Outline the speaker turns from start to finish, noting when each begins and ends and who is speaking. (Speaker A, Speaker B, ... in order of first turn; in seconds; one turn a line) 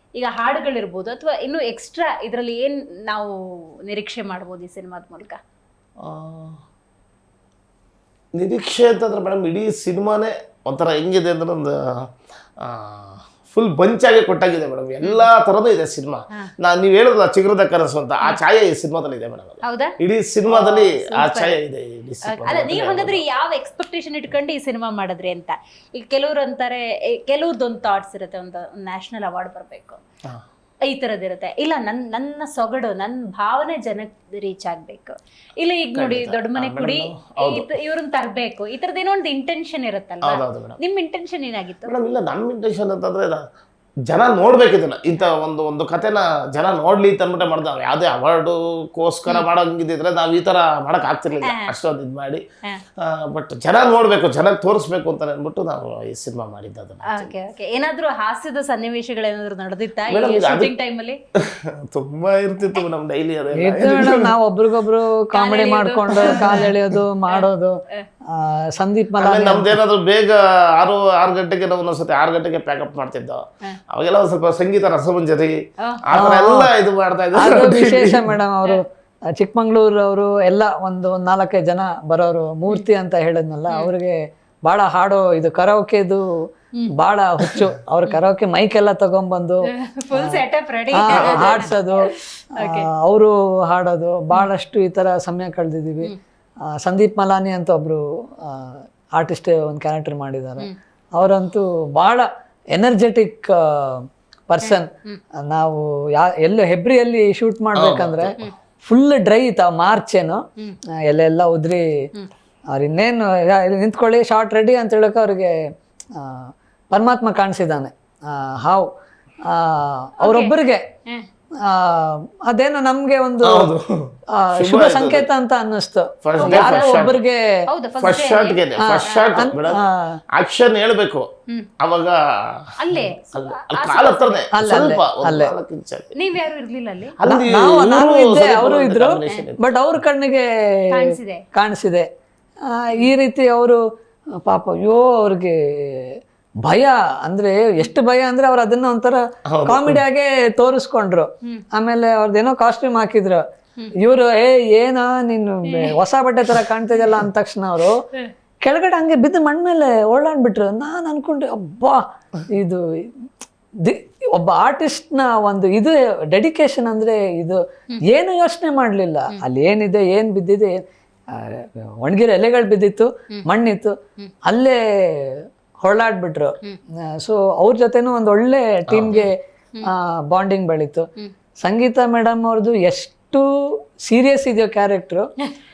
Speaker A: 0.2-5.4
Speaker B: 6.0-6.6
Speaker B: 8.3-12.1
Speaker B: 12.6-23.2
Speaker A: 15.0-15.3
Speaker A: 19.6-19.9
Speaker A: 20.5-21.6
Speaker A: 22.2-30.0
Speaker A: 30.8-41.9
Speaker B: 35.9-37.7
Speaker B: 40.2-40.8
Speaker B: 41.9-43.4
Speaker B: 44.0-52.4
Speaker A: 51.4-51.7
Speaker B: 53.0-57.3
Speaker A: 57.1-61.2
Speaker B: 60.1-60.7
Speaker B: 61.4-64.3
Speaker C: 63.5-69.8
Speaker A: 65.3-66.7
Speaker B: 66.2-66.6
Speaker A: 67.3-68.0
Speaker B: 69.2-78.3
Speaker C: 76.1-76.7
Speaker C: 77.3-86.2
Speaker C: 86.9-96.1
Speaker A: 89.8-92.9
Speaker B: 91.1-91.7
Speaker C: 96.7-110.4
Speaker A: 104.6-105.2
Speaker B: 107.8-108.4
Speaker C: 111.1-111.9
Speaker C: 112.7-115.5
Speaker C: 116.2-118.9
Speaker C: 119.5-120.8
Speaker A: 120.2-120.5
Speaker C: 121.6-123.7
Speaker B: 123.4-125.3
Speaker C: 124.3-127.4
Speaker B: 126.2-127.2
Speaker A: 126.4-127.1
Speaker A: 127.7-129.2
Speaker B: 128.0-129.8
Speaker C: 128.8-130.2
Speaker B: 130.3-131.3
Speaker B: 131.8-136.1
Speaker A: 132.8-134.4
Speaker C: 134.5-135.5
Speaker A: 136.1-137.2
Speaker B: 137.2-139.7
Speaker C: 137.2-142.1
Speaker A: 140.9-141.4
Speaker C: 142.7-143.8
Speaker C: 144.4-153.4
Speaker B: 149.5-150.0
Speaker C: 154.0-158.0
Speaker A: 155.7-155.9
Speaker C: 158.6-163.3
Speaker C: 163.8-181.1
Speaker B: 178.9-179.3
Speaker C: 181.6-185.2